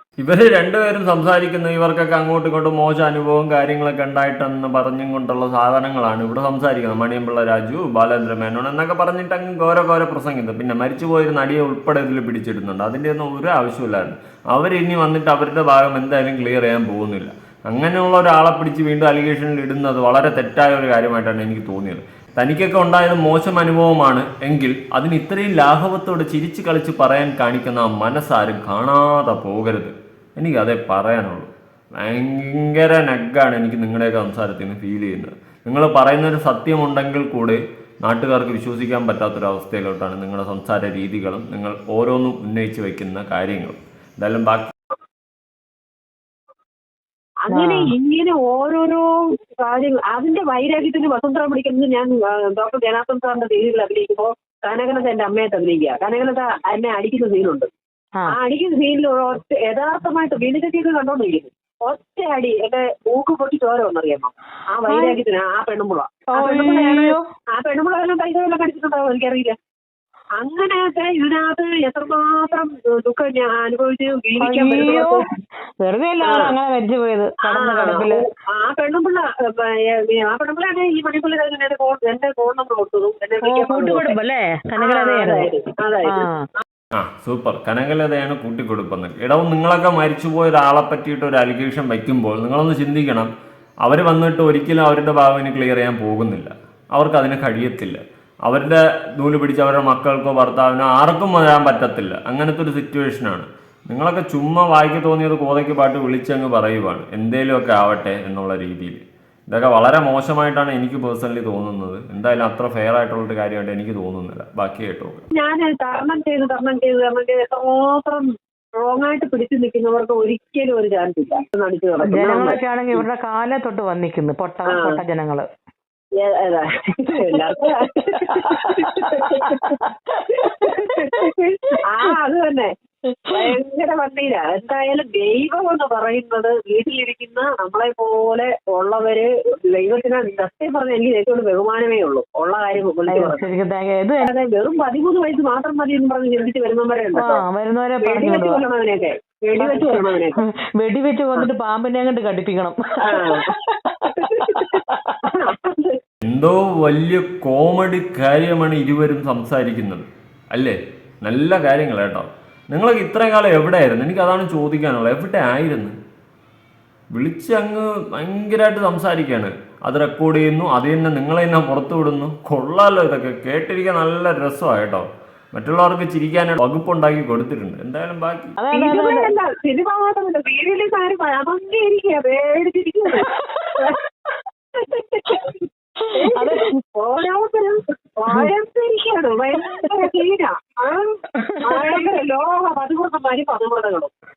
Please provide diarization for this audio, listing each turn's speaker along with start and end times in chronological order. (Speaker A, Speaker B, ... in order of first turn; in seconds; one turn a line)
Speaker A: 0.2-44.7
Speaker B: 47.5-57.7
Speaker C: 47.5-47.9
Speaker B: 58.3-69.5
Speaker C: 64.9-65.2
Speaker C: 66.4-67.2
Speaker B: 70.4-75.2
Speaker C: 74.4-75.2
Speaker C: 75.8-78.2
Speaker B: 76.2-76.5
Speaker B: 77.5-84.1
Speaker C: 83.5-85.5
Speaker B: 84.8-86.2
Speaker C: 86.0-86.4
Speaker A: 86.9-93.3
Speaker A: 93.8-115.2
Speaker B: 115.3-118.3
Speaker B: 118.8-123.0
Speaker C: 122.1-125.5
Speaker B: 124.7-125.0
Speaker B: 126.2-132.7
Speaker C: 128.0-131.8
Speaker B: 133.2-143.4
Speaker C: 143.1-144.3
Speaker B: 144.2-147.4
Speaker C: 147.2-148.6
Speaker B: 148.0-150.4
Speaker C: 149.6-155.2
Speaker B: 153.1-156.0
Speaker A: 156.2-165.9
Speaker A: 167.1-178.6
Speaker C: 178.6-179.3
Speaker B: 178.7-184.0
Speaker C: 183.3-184.0
Speaker B: 184.7-194.1
Speaker C: 186.0-186.8
Speaker C: 191.4-192.0